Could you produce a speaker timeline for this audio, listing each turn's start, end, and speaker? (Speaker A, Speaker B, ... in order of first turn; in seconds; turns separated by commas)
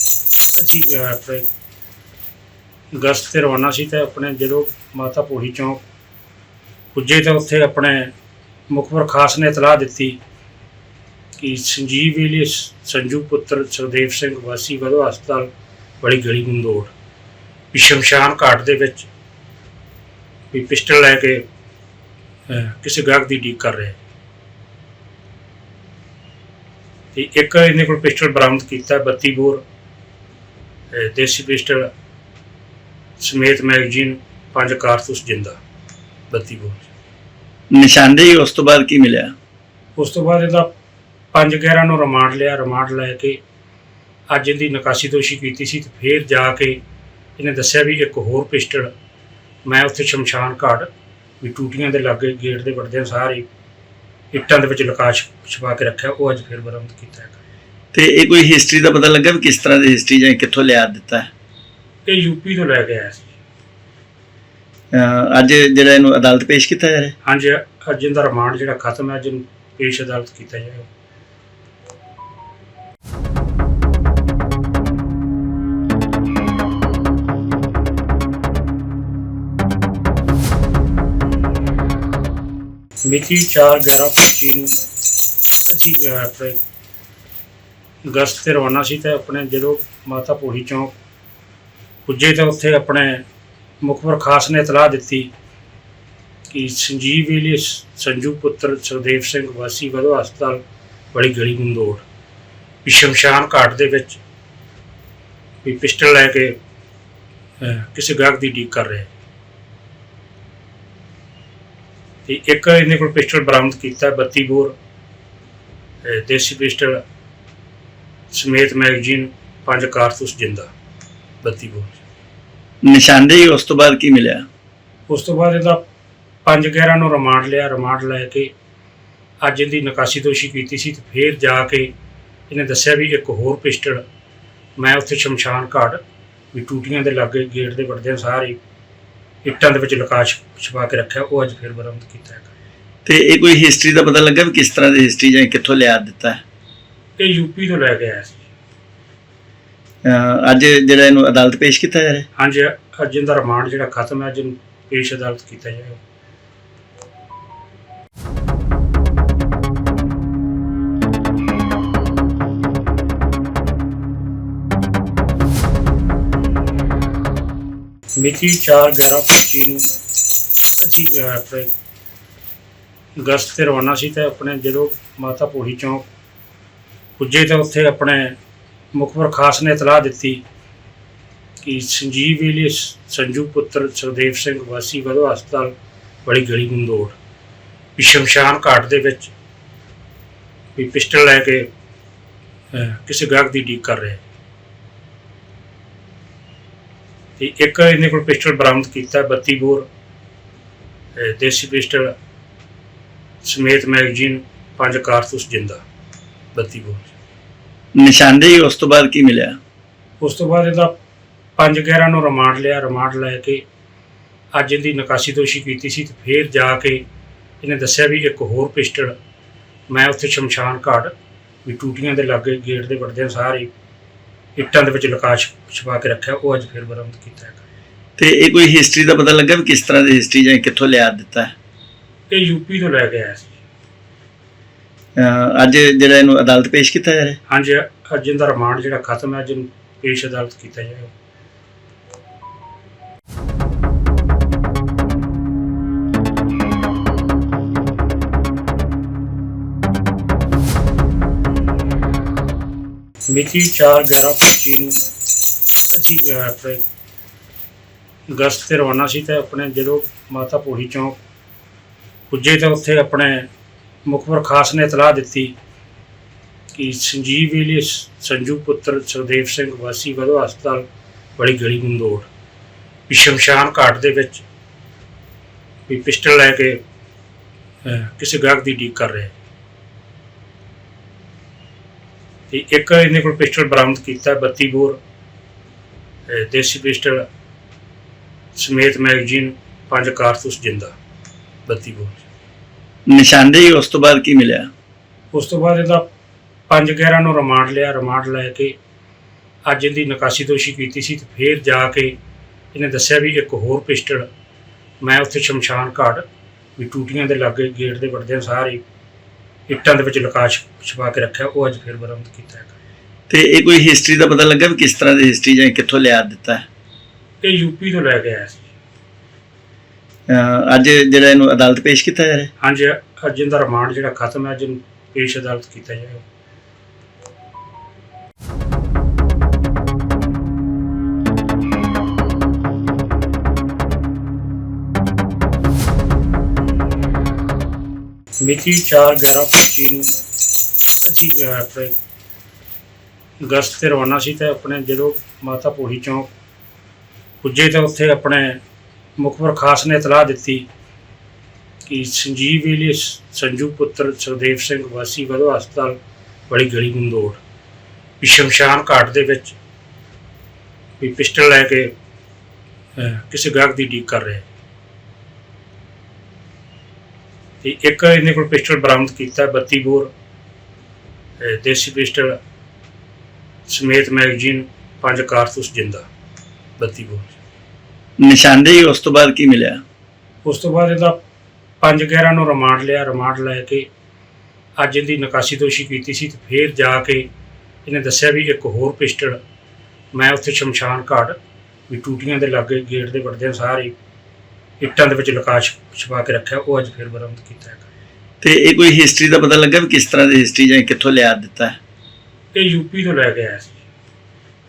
Speaker A: 0.6-1.5, Speaker A: 2.9-5.8, Speaker A: 6.9-8.1, Speaker A: 8.7-10.2, Speaker A: 11.4-16.9, Speaker A: 17.7-19.1, Speaker A: 20.5-21.5, Speaker A: 22.5-24.0, Speaker A: 27.1-29.6, Speaker A: 30.9-31.9, Speaker A: 33.2-35.6, Speaker A: 36.3-36.9, Speaker B: 37.7-39.3, Speaker A: 40.0-40.7, Speaker A: 41.3-43.4, Speaker A: 44.3-46.8, Speaker A: 47.4-48.9, Speaker A: 49.6-53.5, Speaker A: 54.3-57.4, Speaker B: 57.9-61.3, Speaker A: 62.1-63.3, Speaker B: 64.9-67.1, Speaker A: 67.2-70.9, Speaker A: 83.0-84.8, Speaker A: 85.7-86.6, Speaker A: 88.1-91.0, Speaker A: 92.1-93.2, Speaker A: 93.8-95.3, Speaker A: 96.5-102.0, Speaker A: 102.8-104.2, Speaker A: 105.6-106.6, Speaker A: 107.6-109.1, Speaker A: 112.3-114.8, Speaker A: 116.0-117.0, Speaker A: 118.3-120.7, Speaker A: 121.4-122.0, Speaker B: 122.8-124.5, Speaker A: 125.1-125.8, Speaker A: 126.5-128.5, Speaker A: 129.4-131.9, Speaker A: 132.5-134.0, Speaker A: 134.8-136.0, Speaker A: 136.5-138.6, Speaker A: 139.4-142.5, Speaker B: 143.1-146.4, Speaker A: 147.2-148.4, Speaker B: 150.0-152.2, Speaker A: 152.3-156.0, Speaker A: 168.2-169.9, Speaker A: 170.8-171.7, Speaker A: 173.2-176.1, Speaker A: 177.2-178.3, Speaker A: 178.9-180.4, Speaker A: 181.6-187.2, Speaker A: 188.0-189.3, Speaker A: 190.7-191.7, Speaker A: 192.7-194.2, Speaker A: 197.4-199.9, Speaker A: 201.2-202.1, Speaker A: 203.4-205.8, Speaker A: 206.5-207.1, Speaker B: 208.0-209.6, Speaker A: 210.2-211.0, Speaker A: 211.6-213.6, Speaker A: 214.5-217.0, Speaker A: 217.6-219.1, Speaker A: 219.9-223.7, Speaker A: 224.6-227.6, Speaker B: 228.2-231.5, Speaker A: 232.3-233.6, Speaker B: 235.2-237.4, Speaker A: 237.5-241.1, Speaker A: 253.3-255.0, Speaker A: 255.9-256.9, Speaker A: 258.3-261.2, Speaker A: 262.3-263.5, Speaker A: 264.1-265.6, Speaker A: 266.7-270.9, Speaker A: 271.4-272.3, Speaker A: 273.1-274.4, Speaker A: 275.9-276.8, Speaker A: 277.8-279.3, Speaker A: 282.5-285.0, Speaker A: 286.3-287.2, Speaker A: 288.6-290.9, Speaker A: 291.7-292.2, Speaker B: 293.1-294.7, Speaker A: 295.3-296.1, Speaker A: 296.7-298.8, Speaker A: 299.7-302.2, Speaker A: 302.7-304.2, Speaker A: 305.0-308.8, Speaker A: 309.7-312.7, Speaker B: 313.3-316.6, Speaker A: 317.4-318.7, Speaker B: 320.3-322.5, Speaker A: 322.6-326.2, Speaker A: 338.4-340.1, Speaker A: 341.1-342.0, Speaker A: 343.4-346.3, Speaker A: 347.4-348.6, Speaker A: 349.2-350.7, Speaker A: 351.9-356.0, Speaker A: 356.5-357.4, Speaker A: 358.2-359.6, Speaker A: 361.0-361.9, Speaker A: 363.0-364.5, Speaker A: 367.6-370.1, Speaker A: 371.4-372.4, Speaker A: 373.7-376.1, Speaker A: 376.8-377.4, Speaker B: 378.2-379.8, Speaker A: 380.4-381.2, Speaker A: 381.8-383.9, Speaker A: 384.8-387.3, Speaker A: 387.9-389.4, Speaker A: 390.1-391.4, Speaker A: 391.9-393.9, Speaker A: 394.8-397.9, Speaker B: 398.4-401.8, Speaker A: 402.6-403.8